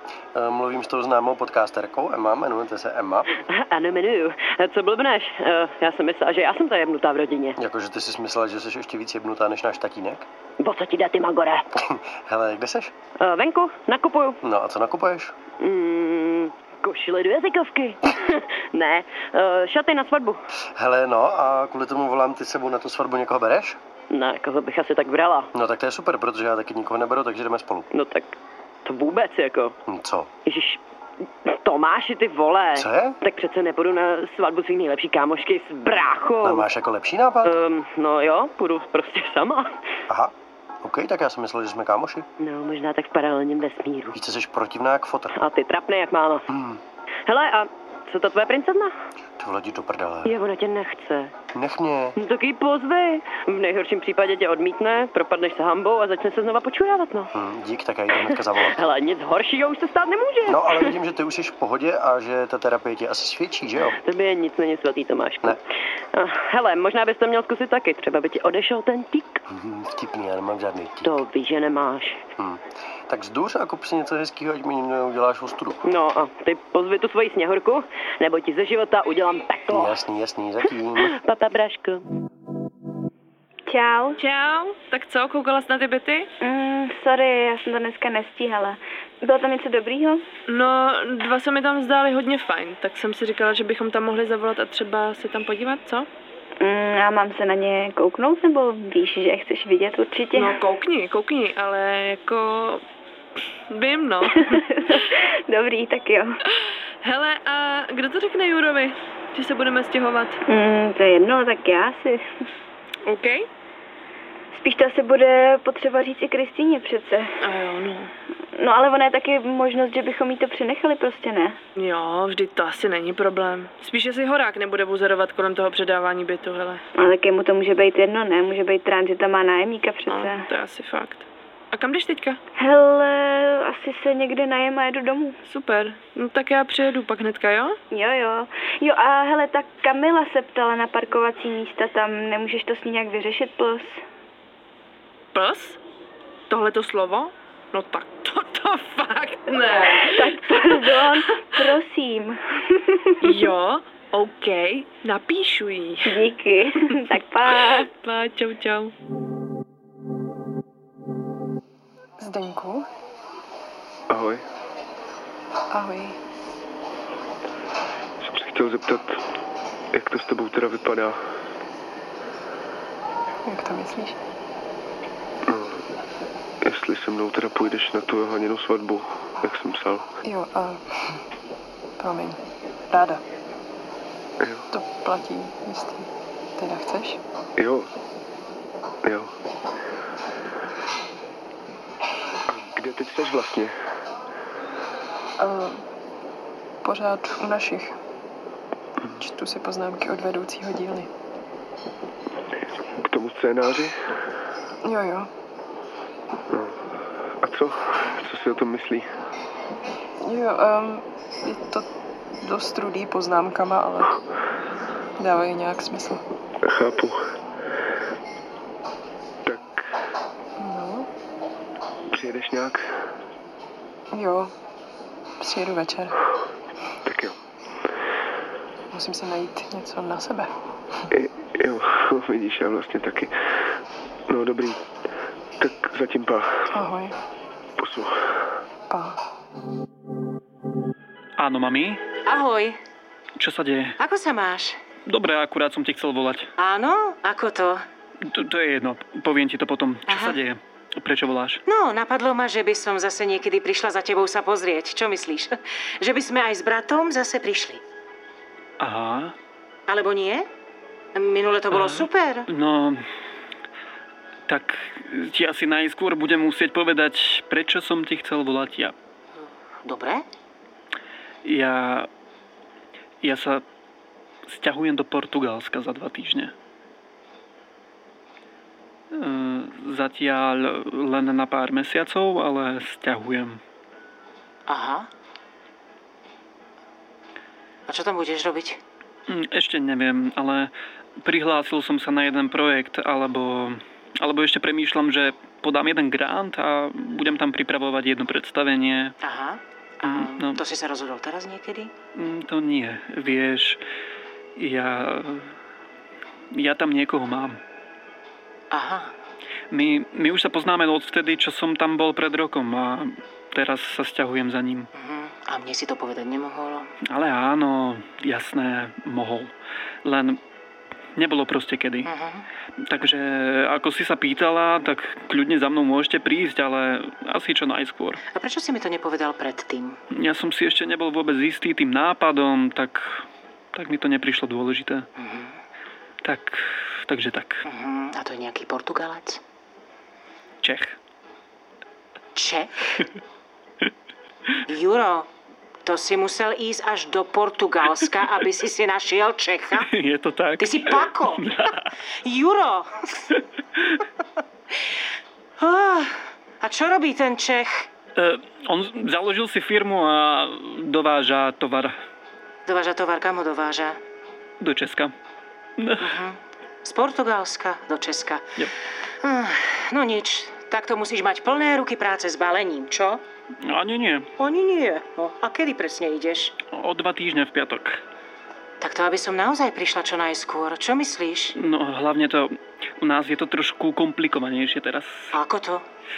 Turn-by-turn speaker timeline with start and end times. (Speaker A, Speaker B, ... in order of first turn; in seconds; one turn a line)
Speaker A: 0.3-3.3
Speaker B: 3.5-7.6
Speaker A: 7.6-10.3
Speaker B: 10.6-11.7
Speaker A: 11.8-12.9
Speaker B: 13.2-14.4
Speaker A: 14.4-15.3
Speaker B: 15.6-20.4
Speaker A: 20.8-23.8
Speaker B: 24.1-25.5
Speaker A: 25.5-27.9
Speaker B: 27.9-29.8
Speaker A: 29.9-30.3
Speaker B: 30.4-30.8
Speaker B: 31.5-36.7
Speaker A: 32.8-33.2
Speaker A: 36.4-37.5
Speaker B: 37.4-39.8
Speaker A: 40.1-42.3
Speaker B: 42.4-44.1
Speaker A: 44.1-45.3
Speaker B: 45.4-46.5
Speaker A: 46.5-46.8
Speaker B: 47.3-48.9
Speaker A: 49.4-50.4
Speaker B: 50.3-51.3
Speaker A: 51.5-52.2
Speaker B: 52.2-57.3
Speaker A: 57.3-58.8
Speaker B: 58.7-60.9
Speaker A: 60.5-64.0
Speaker B: 64.0-65.6
Speaker B: 66.1-69.4
Speaker A: 69.5-71.2
Speaker B: 71.0-72.2
Speaker A: 72.4-75.8
Speaker B: 75.8-80.0
Speaker A: 79.7-81.2
Speaker B: 81.0-82.0
Speaker C: 83.7-84.2
Speaker D: 84.2-86.3
Speaker C: 86.4-90.2
Speaker D: 90.5-96.1
Speaker C: 96.6-100.6
Speaker D: 100.4-102.8
Speaker D: 103.7-104.6
Speaker C: 104.5-106.4
Speaker D: 107.0-110.4
Speaker C: 110.5-112.2
Speaker D: 113.1-113.5
Speaker C: 114.5-117.3
Speaker D: 117.4-118.1
Speaker C: 118.6-121.6
Speaker D: 121.8-126.8
Speaker C: 127.0-130.5
Speaker D: 130.1-132.4
Speaker C: 132.6-135.4
Speaker D: 135.4-137.8
Speaker C: 137.9-144.0
Speaker D: 145.3-145.8
Speaker D: 146.5-151.2
Speaker C: 150.0-153.4
Speaker D: 153.2-156.2
Speaker C: 156.1-157.9
Speaker D: 157.9-158.9
Speaker E: 162.2-162.9
Speaker F: 164.1-164.4
Speaker E: 165.7-166.2
Speaker F: 168.2-169.2
Speaker F: 169.9-171.2
Speaker E: 173.4-174.2
Speaker F: 175.5-175.8
Speaker F: 176.6-180.1
Speaker E: 180.2-181.2
Speaker E: 182.0-183.2
Speaker E: 184.7-187.2
Speaker F: 187.6-187.9
Speaker F: 189.0-189.3
Speaker F: 192.5-193.8
Speaker E: 195.4-195.8
Speaker E: 196.8-197.9
Speaker E: 199.2-201.1
Speaker F: 203.0-204.0
Speaker E: 204.8-205.3
Speaker F: 206.5-206.8
Speaker F: 207.4-209.1
Speaker E: 210.2-211.9
Speaker E: 212.4-214.1
Speaker E: 215.2-216.2
Speaker F: 216.6-217.3
Speaker F: 219.5-219.9
Speaker E: 220.6-221.1
Speaker F: 222.1-223.0
Speaker E: 224.1-224.5
Speaker E: 225.4-226.1
Speaker F: 227.1-227.3
Speaker E: 228.9-230.5
Speaker F: 231.1-233.8
Speaker F: 234.3-234.8
Speaker F: 235.6-236.7
Speaker E: 236.7-237.2
Speaker F: 237.8-238.5
Speaker E: 238.9-239.2
Speaker G: 241.4-242.0
Speaker H: 242.2-242.8
Speaker G: 243.4-244.0
Speaker H: 244.0-244.8
Speaker G: 245.1-246.5
Speaker H: 246.6-247.8
Speaker G: 248.2-251.6
Speaker H: 250.1-250.4
Speaker H: 251.7-257.8
Speaker G: 258.8-259.4
Speaker H: 259.9-260.5
Speaker H: 261.1-262.5
Speaker G: 261.7-263.0
Speaker G: 264.5-268.9
Speaker H: 269.8-270.3
Speaker G: 271.4-272.1
Speaker G: 273.2-273.6
Speaker G: 274.5-276.5
Speaker G: 279.1-283.6
Speaker H: 284.7-285.1
Speaker H: 287.9-288.8
Speaker G: 289.3-299.2
Speaker H: 299.2-301.9
Speaker G: 300.0-300.6
Speaker G: 302.1-303.8
Speaker G: 304.6-305.5
Speaker G: 306.5-307.6
Speaker H: 308.7-309.1
Speaker G: 309.7-314.9
Speaker H: 314.9-316.9
Speaker G: 317.1-319.5
Speaker G: 320.0-320.4
Speaker G: 321.2-322.1
Speaker H: 322.1-322.5
Speaker G: 322.8-328.2
Speaker H: 328.3-330.0
Speaker G: 330.1-335.1
Speaker H: 335.2-335.6
Speaker G: 336.2-337.6
Speaker H: 337.7-339.4
Speaker G: 340.6-341.0
Speaker H: 342.4-342.7
Speaker H: 344.7-345.3
Speaker H: 345.8-349.9
Speaker G: 349.8-351.9
Speaker H: 350.6-353.2
Speaker H: 355.6-357.9
Speaker G: 358.2-362.0
Speaker H: 362.7-364.0
Speaker G: 364.6-365.1
Speaker G: 365.8-366.1
Speaker H: 366.0-368.5
Speaker H: 369.2-373.2
Speaker G: 373.6-374.3
Speaker H: 374.4-376.6
Speaker G: 376.7-378.0
Speaker H: 378.8-381.6
Speaker G: 381.6-385.3
Speaker H: 385.3-385.9